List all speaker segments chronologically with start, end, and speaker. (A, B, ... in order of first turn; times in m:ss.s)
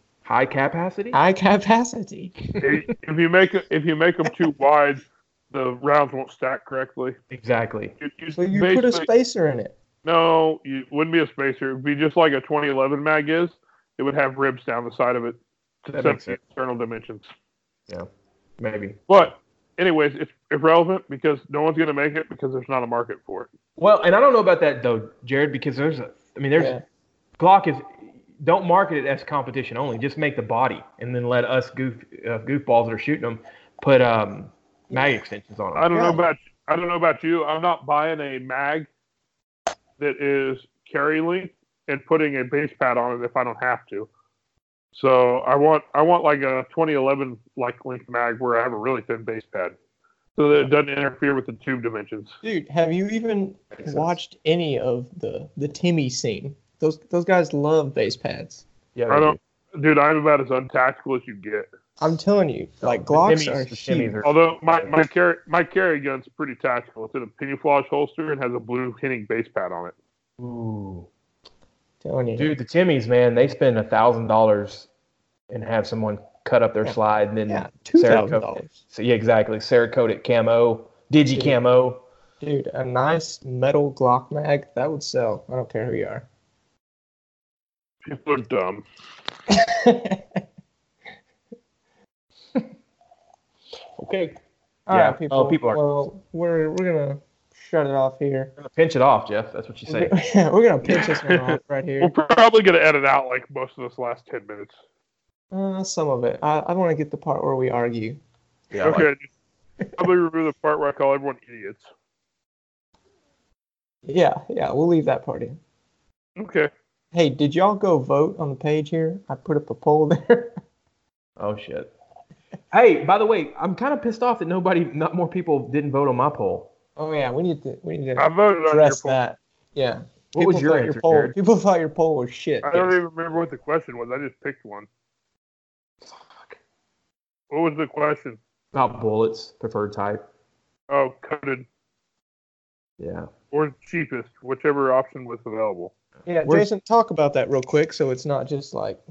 0:00.2-0:01.2 A
0:01.1-0:02.3 B
0:02.6-0:07.2 C
0:07.3-0:08.0 A
0:08.0-0:09.1 C
0:08.3-0:09.8 B
0:10.0-0:17.3 C
0:15.9-0:16.4 A
0:18.6-0:19.2 A
0:19.1-0:23.5 C
0:23.8-0:26.8 A
0:26.6-0:26.8 B
0:27.4-0:36.2 A
0:35.8-0:38.9 C
0:40.0-0:44.1 C
0:44.9-0:49.8 C
0:50.4-0:52.4 C
0:52.4-0:58.7 B
0:53.8-0:54.1 A
0:59.0-0:59.4 A
0:59.1-1:01.7 C
1:02.0-1:04.2 B
1:02.8-1:04.9 A
1:04.2-1:09.9 C
1:10.4-1:11.1 A
1:12.0-1:12.5 B
1:12.4-1:14.9 A
1:15.5-1:22.0 A
1:17.5-1:18.8 B
1:22.4-1:26.3 B
1:28.0-1:28.8 C
1:29.5-1:30.4 B
1:34.0-1:34.4 A
1:34.9-1:38.5 B
1:34.9-1:35.9 A
1:38.6-1:40.2 A
1:39.9-1:42.1 B
1:41.3-1:44.8 C
1:45.5-1:48.2 B
1:48.7-1:49.1 A
1:48.8-1:49.3 C
1:50.0-1:51.9 C
1:54.0-1:55.6 B
1:56.4-1:56.7 C
1:57.1-2:00.6 B
2:01.4-2:01.9 A
2:02.7-2:06.7 A
2:07.0-2:13.0 B
2:08.2-2:09.2 C
2:10.3-2:11.4 A
2:12.6-2:14.9 C
2:16.0-2:16.6 A
2:17.5-2:18.4 C
2:18.7-2:20.2 A
2:20.9-2:21.7 C
2:23.0-2:23.3 A
2:23.5-2:25.9 C
2:26.3-2:29.0 B